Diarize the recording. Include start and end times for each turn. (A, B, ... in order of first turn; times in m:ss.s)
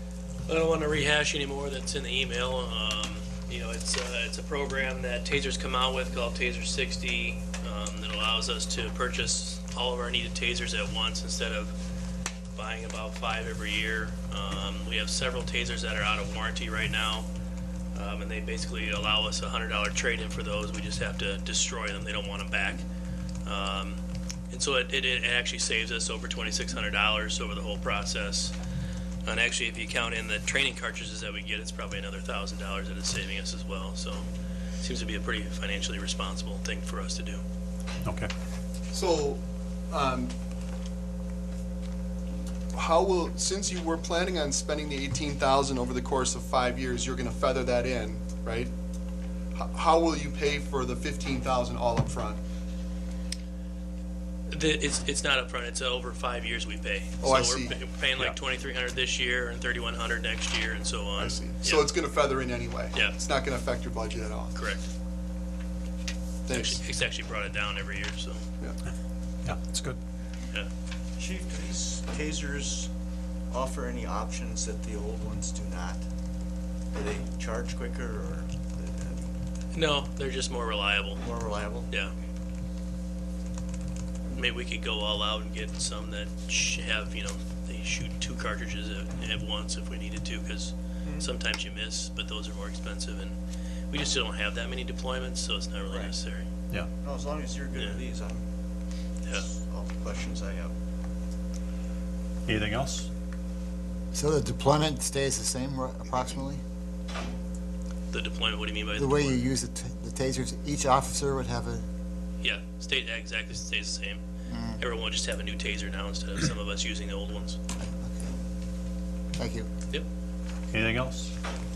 0:00.5-0:11.7 A
0:12.5-0:17.3 A
0:17.9-0:22.8 A
0:23.4-0:28.5 A
0:29.2-0:34.3 A
0:34.8-0:37.4 A
0:38.0-0:38.3 B
0:38.9-0:40.3 C
0:42.7-0:48.7 C
0:49.5-0:52.4 C
0:54.5-1:02.0 A
0:57.2-0:57.7 C
1:01.2-1:04.5 C
1:02.9-1:03.2 A
1:04.5-1:04.9 A
1:06.5-1:06.8 C
1:06.5-1:08.4 A
1:09.4-1:10.0 B
1:11.2-1:12.9 D
1:13.5-1:16.0 D
1:16.9-1:19.1 D
1:19.7-1:21.2 A
1:21.2-1:21.9 D
1:24.3-1:33.3 A
1:33.9-1:36.4 A
1:35.9-1:36.1 D
1:37.0-1:38.4 D
1:39.4-1:40.7 D
1:42.4-1:43.1 B
1:44.1-1:46.6 E
1:48.1-1:49.4 A
1:49.0-1:51.8 E
1:52.4-1:54.2 A
1:54.5-1:54.8 E
1:54.8-1:57.6 A
1:57.8-1:58.3 E
1:59.4-1:59.7 E
2:00.7-2:01.3 B